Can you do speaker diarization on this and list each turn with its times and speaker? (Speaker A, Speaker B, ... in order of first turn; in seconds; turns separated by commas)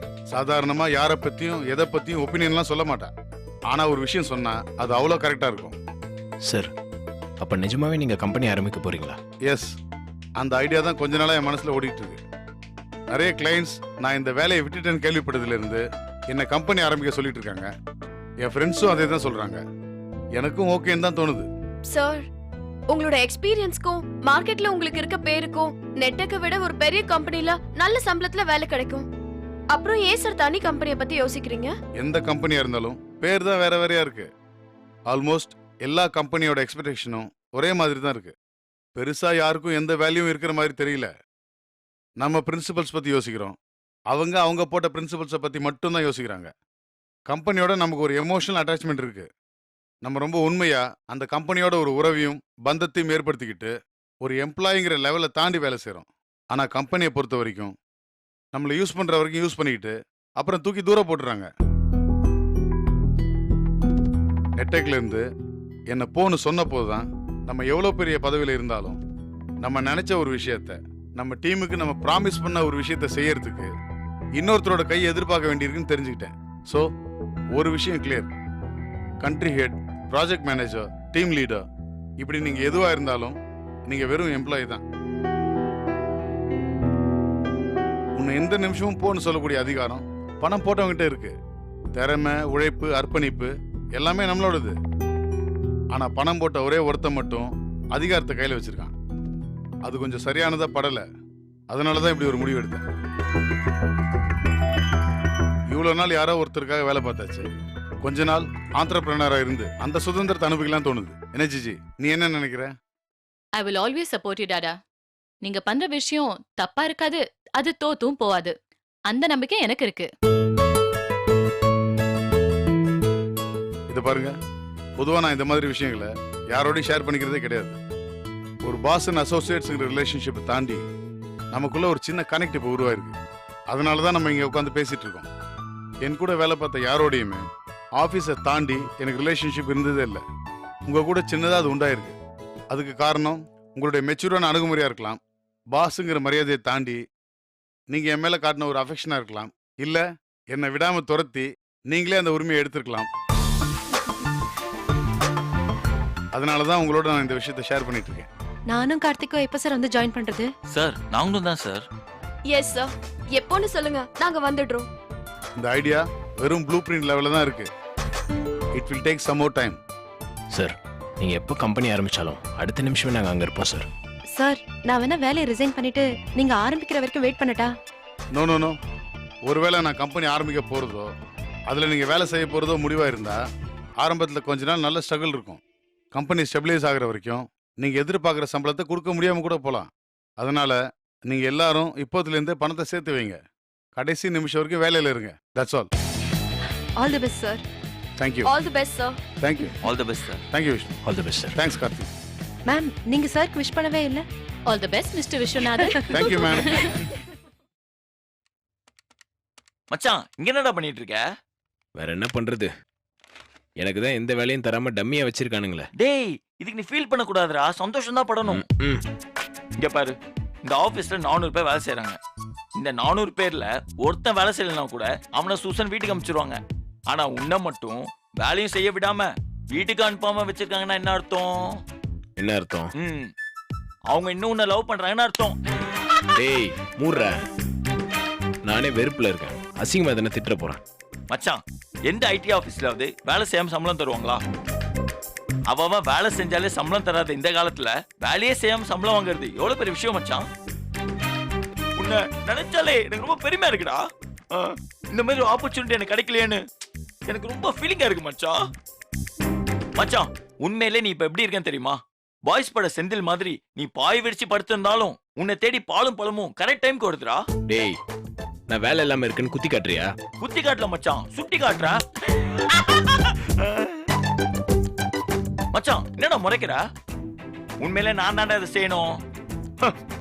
Speaker A: 0.3-3.1, Speaker A: 3.7-5.8, Speaker B: 6.5-6.7, Speaker B: 7.4-9.2, Speaker A: 9.5-9.8, Speaker A: 10.4-12.2, Speaker A: 13.1-17.7, Speaker A: 18.4-19.6, Speaker A: 20.4-21.5, Speaker C: 21.9-22.2, Speaker C: 22.9-29.1, Speaker C: 29.7-31.7, Speaker A: 32.0-34.3, Speaker A: 35.1-38.3, Speaker A: 39.0-41.1, Speaker A: 42.2-43.6, Speaker A: 44.1-46.5, Speaker A: 47.3-49.3, Speaker A: 50.0-53.7, Speaker A: 54.2-57.7, Speaker A: 58.5-61.5, Speaker A: 64.6-65.2, Speaker A: 65.9-69.0, Speaker A: 69.6-73.7, Speaker A: 74.4-76.8, Speaker A: 77.5-78.3, Speaker A: 79.2-81.6, Speaker A: 82.2-83.3, Speaker A: 83.9-84.8, Speaker A: 88.2-91.3, Speaker A: 92.0-94.8, Speaker A: 95.9-98.9, Speaker A: 99.8-101.0, Speaker A: 101.7-102.8, Speaker A: 105.7-107.5, Speaker A: 108.0-112.7, Speaker D: 113.6-114.8, Speaker D: 115.4-118.5, Speaker D: 119.1-120.1, Speaker A: 123.9-124.3, Speaker A: 125.0-127.8, Speaker A: 128.6-130.8, Speaker A: 131.5-133.2, Speaker A: 133.7-135.3, Speaker A: 136.0-137.4, Speaker A: 138.0-140.2, Speaker A: 140.9-142.2, Speaker A: 142.7-145.2, Speaker A: 145.7-147.0, Speaker A: 147.9-153.1, Speaker A: 156.3-158.3, Speaker E: 158.7-160.5, Speaker F: 160.7-161.9, Speaker C: 162.5-164.9, Speaker A: 165.6-167.7, Speaker A: 168.8-169.8, Speaker B: 170.5-173.9, Speaker E: 174.3-177.7, Speaker A: 178.3-178.8, Speaker A: 179.4-181.1, Speaker A: 181.7-183.4, Speaker A: 184.0-185.6, Speaker A: 186.1-193.4, Speaker A: 193.9-195.9, Speaker E: 197.0-197.6, Speaker A: 198.2-198.5, Speaker C: 198.5-199.2, Speaker A: 199.4-199.8, Speaker F: 199.8-200.4, Speaker A: 200.5-200.9, Speaker B: 201.1-201.6, Speaker A: 201.6-202.1, Speaker E: 202.7-204.3, Speaker D: 204.7-207.0, Speaker E: 205.8-206.4, Speaker A: 206.1-206.8, Speaker F: 209.9-211.2, Speaker B: 212.0-212.7, Speaker B: 213.8-215.9, Speaker F: 216.0-218.6, Speaker B: 218.4-219.0, Speaker F: 219.8-222.2, Speaker F: 222.8-231.8, Speaker B: 232.4-232.9, Speaker F: 233.0-233.3, Speaker F: 234.1-235.6, Speaker B: 236.4-237.3, Speaker B: 238.7-240.8, Speaker F: 241.3-244.4, Speaker F: 245.7-250.5, Speaker F: 252.0-256.6, Speaker F: 257.3-258.6, Speaker F: 260.0-267.5, Speaker B: 267.7-268.0, Speaker B: 268.7-270.1, Speaker F: 270.4-274.1, Speaker F: 275.7-276.8, Speaker F: 277.8-279.2